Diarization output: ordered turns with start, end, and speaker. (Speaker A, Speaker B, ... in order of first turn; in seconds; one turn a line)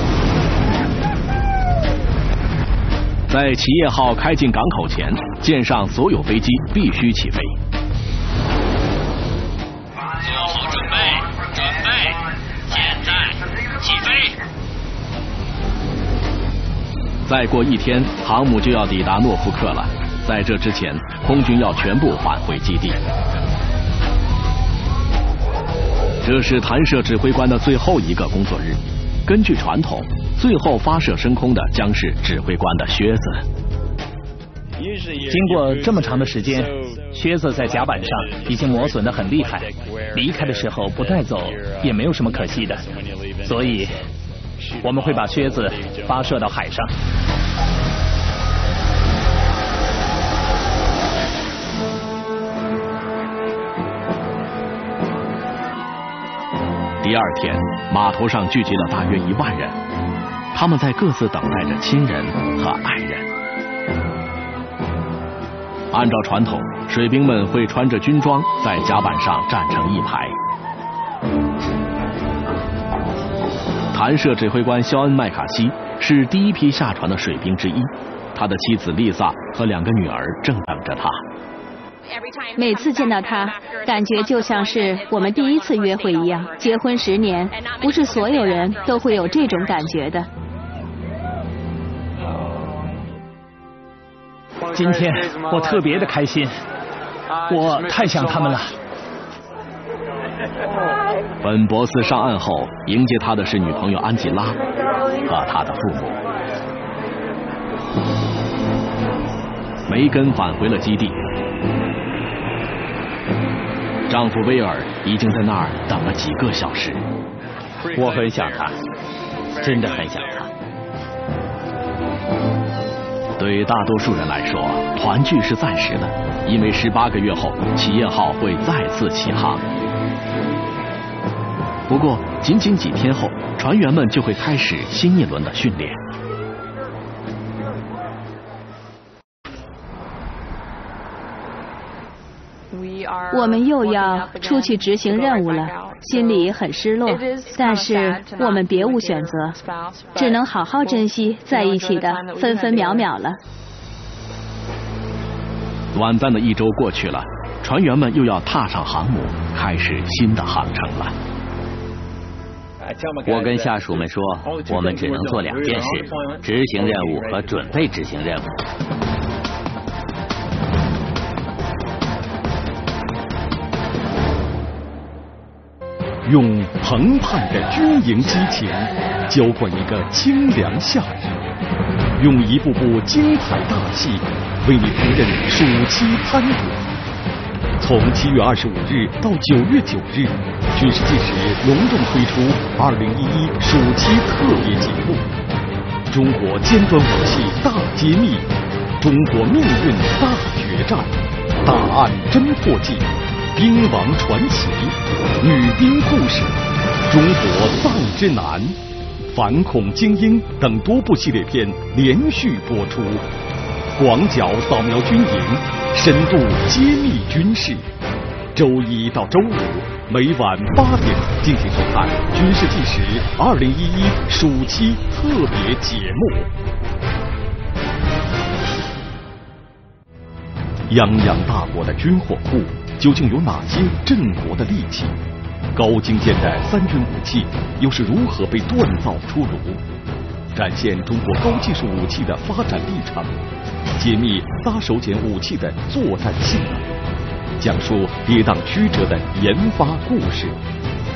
Speaker A: 3.3-7.6
Speaker A: 10.5-11.2
Speaker A: 11.9-12.2
Speaker A: 12.9-13.3
Speaker A: 13.9-14.2
Speaker A: 17.3-23.0
Speaker A: 26.2-33.4
Speaker B: 35.3-42.9
Speaker B: 43.4-44.1
Speaker B: 44.8-46.9
Speaker A: 57.0-59.8
Speaker A: 60.5-63.3
Speaker A: 65.9-70.3
Speaker A: 73.9-81.2
Speaker C: 82.6-90.3
Speaker B: 94.7-96.5
Speaker B: 97.5-98.7
Speaker A: 101.4-104.6
Speaker A: 105.2-106.2
Speaker A: 109.9-111.2
Speaker A: 114.1-117.0
Speaker D: 117.9-118.8
Speaker D: 119.6-120.5
Speaker A: 123.4-129.6
Speaker A: 131.9-136.0
Speaker C: 143.3-149.6
Speaker C: 150.1-153.4
Speaker A: 155.9-161.2
Speaker D: 163.2-168.5
Speaker E: 176.2-181.4
Speaker E: 182.2-186.9
Speaker E: 187.8-195.3
Speaker E: 196.1-208.8
Speaker E: 209.3-213.3
Speaker E: 214.0-217.8
Speaker E: 218.5-226.5
Speaker E: 230.9-235.2
Speaker E: 235.7-239.8
Speaker E: 240.5-243.4
Speaker E: 244.0-246.9
Speaker E: 247.6-250.6